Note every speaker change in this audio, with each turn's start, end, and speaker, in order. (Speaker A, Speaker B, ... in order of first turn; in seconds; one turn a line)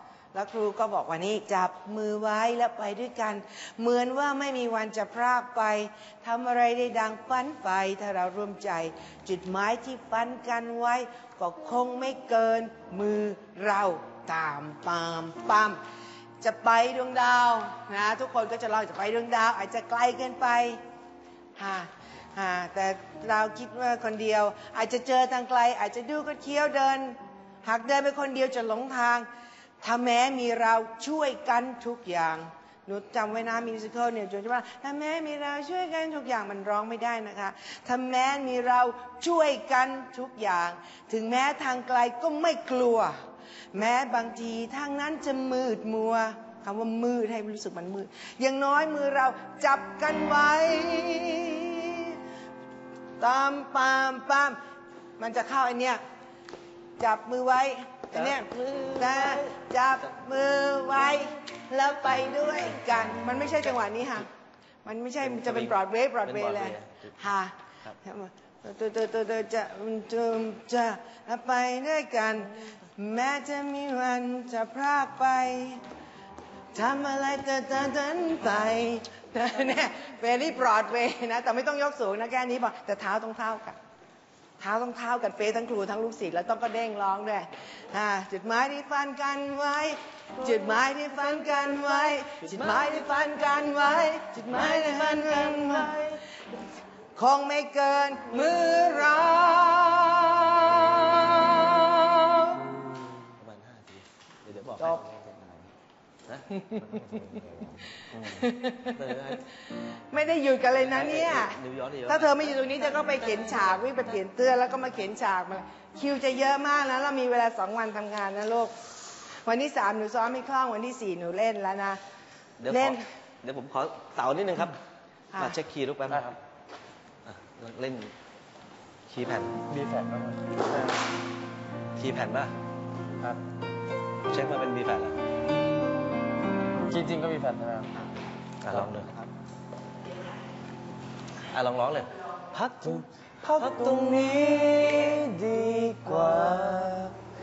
Speaker A: 0.3-15.8
Speaker A: 16.4-20.8
Speaker A: 21.6-29.3
Speaker A: 29.8-43.2
Speaker A: 43.7-52.2
Speaker A: 53.2-54.6
Speaker A: 55.2-56.0
Speaker A: 57.0-64.3
Speaker B: 58.1-59.5
Speaker A: 64.8-75.8
Speaker B: 65.2-67.1
Speaker A: 76.7-83.8
Speaker A: 84.6-96.2
Speaker A: 97.2-102.8
Speaker B: 103.2-105.7
Speaker B: 106.3-109.4
Speaker A: 106.6-106.9
Speaker A: 108.1-118.7
Speaker B: 110.8-114.0
Speaker A: 119.4-122.0
Speaker B: 122.6-124.8
Speaker A: 122.7-123.1
Speaker A: 125.3-125.6
Speaker B: 125.4-126.4
Speaker B: 127.2-128.2
Speaker B: 129.1-129.7
Speaker C: 129.7-130.9
Speaker B: 132.0-132.5
Speaker B: 134.3-135.2
Speaker C: 136.9-137.9
Speaker B: 138.6-139.3
Speaker B: 141.5-145.3
Speaker C: 143.5-147.2